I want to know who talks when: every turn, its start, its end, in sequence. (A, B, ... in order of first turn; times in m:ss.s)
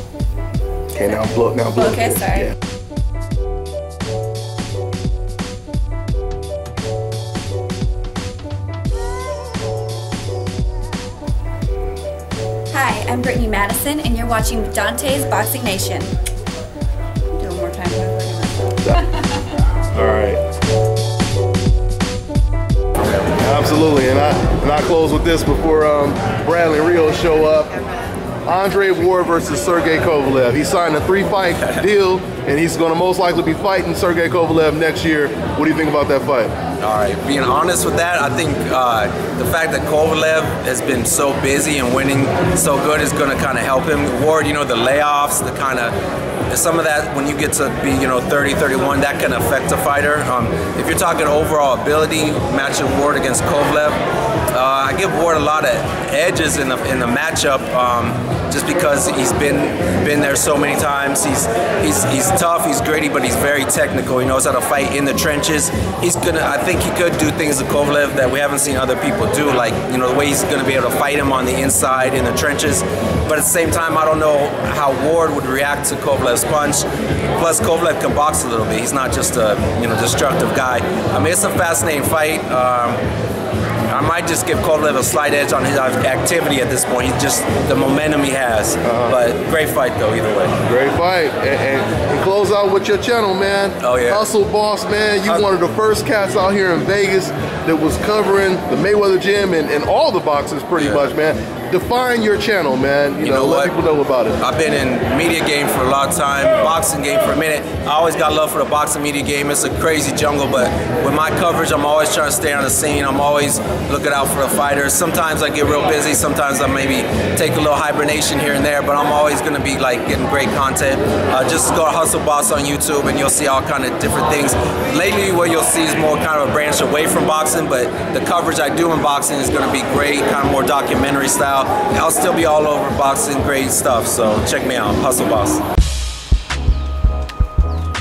0:00.9-0:02.5 A
0:01.7-0:02.5 B
0:12.7-0:16.1 B
0:17.3-0:19.5 B
0:19.9-0:20.4 A
0:23.3-0:27.8 A
0:28.4-0:36.5 A
0:36.8-0:46.0 C
0:46.5-1:23.0 C
1:23.9-1:30.5 C
1:28.8-1:29.2 A
1:30.6-1:44.4 A
1:33.8-1:34.3 C
1:40.8-1:41.1 C
1:43.2-1:43.7 C
1:44.4-2:15.6 C